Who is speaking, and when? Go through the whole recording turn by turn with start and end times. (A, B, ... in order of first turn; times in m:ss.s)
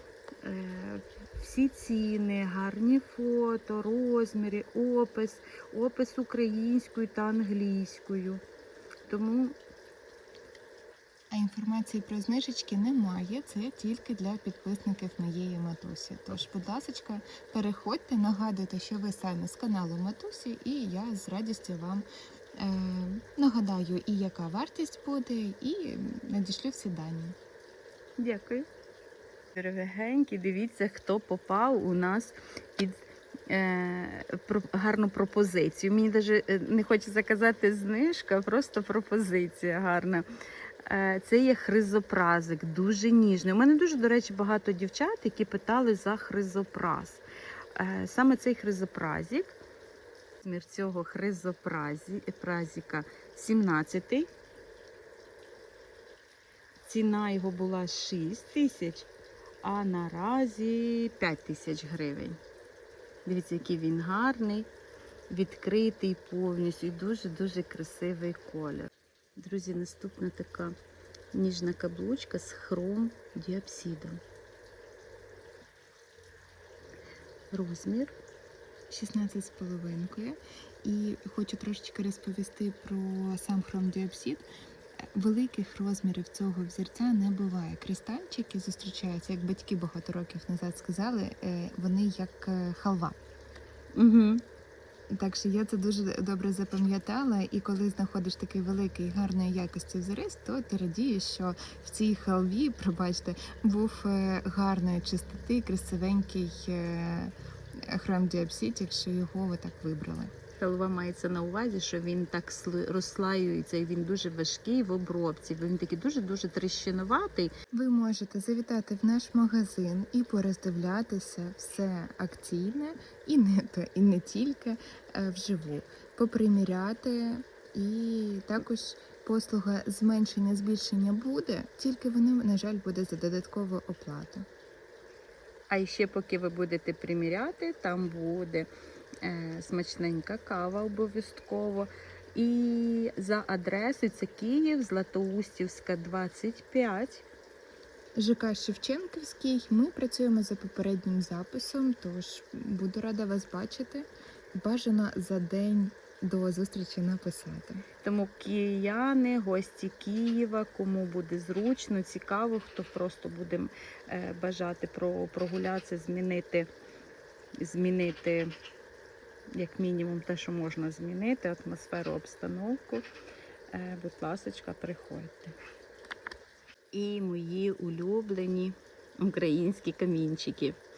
0:00.4-0:08.4 A
0:09.1-0:09.6 A
0:11.3-0:27.4 B
0:28.2-0:28.6 A
0:29.5-0:40.2 A
0:40.8-0:47.2 A
0:47.8-0:49.6 A
0:50.4-0:54.3 A
0:56.8-0:59.1 A
0:59.6-1:02.4 A
1:03.2-1:04.7 A
1:05.3-1:10.7 A
1:11.3-1:14.2 A
1:17.5-1:18.2 A
1:18.9-1:24.4 B
1:25.0-1:33.2 B
1:33.9-1:34.4 A
1:35.1-1:50.3 B
1:50.6-1:57.5 A
1:57.7-2:14.5 B
2:15.7-2:18.7 A
2:19.2-2:27.2 A
2:28.2-2:37.8 B
2:38.0-2:46.7 A
2:47.6-2:48.5 A
2:49.5-2:53.0 A
2:53.7-2:55.5 A
2:56.9-3:00.8 A